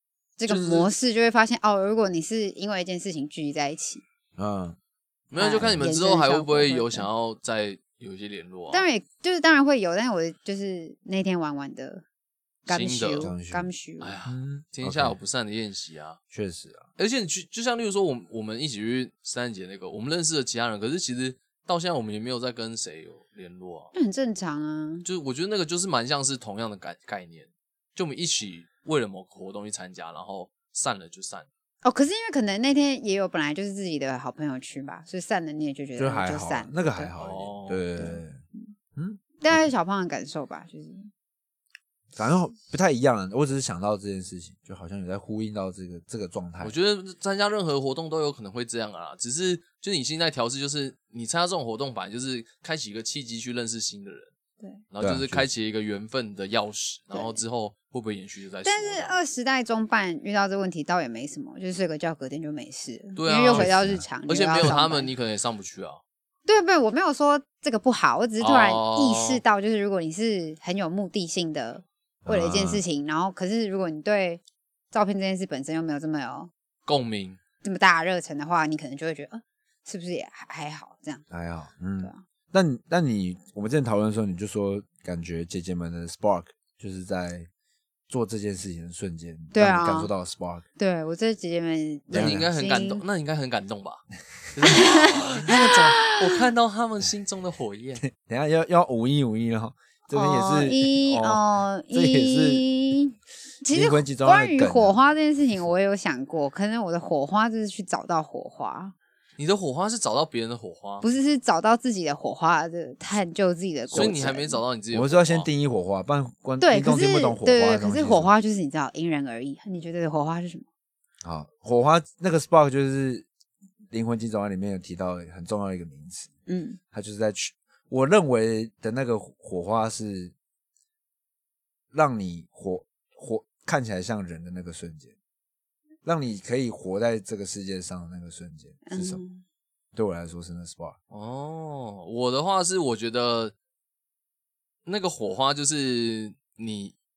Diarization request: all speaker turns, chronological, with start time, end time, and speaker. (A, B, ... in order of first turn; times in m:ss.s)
0:00.4-0:04.0 A
0:00.5-0:00.9 B
0:04.4-0:04.8 C
0:05.3-0:08.9 B
0:05.4-0:07.1 A
0:08.7-0:12.0 A
0:12.7-0:14.1 A
0:12.7-0:13.3 B
0:13.2-0:13.7 C
0:14.0-0:16.2 B
0:14.3-0:15.2 C
0:16.3-0:16.8 C
0:17.0-0:23.9 B
0:23.9-0:25.1 A
0:25.0-0:31.5 B
0:31.8-0:37.1 A
0:36.0-0:38.4 C
0:37.2-0:37.9 B
0:38.0-0:38.7 A
0:39.0-0:39.7 C
0:39.4-0:41.1 A
0:42.2-0:46.7 C
0:46.6-0:54.3 B
0:54.9-0:59.2 B
0:55.0-0:55.5 C
0:57.1-0:57.4 A
0:58.6-1:05.1 A
1:03.2-1:06.0 B
1:03.5-1:04.1 C
1:06.5-1:14.4 A
1:08.4-1:09.4 B
1:12.2-1:12.8 C
1:14.9-1:16.5 A
1:16.9-1:17.4 B
1:17.6-1:21.2 A
1:21.3-1:27.5 C
1:28.1-1:30.6 C
1:29.5-1:30.1 A
1:30.8-1:33.0 A
1:32.1-1:32.5 C
1:32.1-1:34.0 B
1:34.5-1:38.0 B
1:34.7-1:36.4 A
1:38.1-1:42.7 C
1:40.1-1:49.0 A
1:43.7-1:45.0 C
1:49.4-1:51.0 B
1:51.0-1:54.6 A
1:53.9-1:55.5 B
1:53.9-1:54.3 C
1:54.9-1:58.3 C
1:56.6-2:00.6 A
2:01.2-2:03.3 C
2:03.9-2:06.3 C
2:06.5-2:06.8 A
2:06.9-2:10.3 C
2:11.9-2:15.1 C
2:16.0-2:19.2 C
2:18.8-2:19.4 A
2:20.0-2:21.0 C
2:21.1-2:23.5 B
2:24.9-2:26.9 B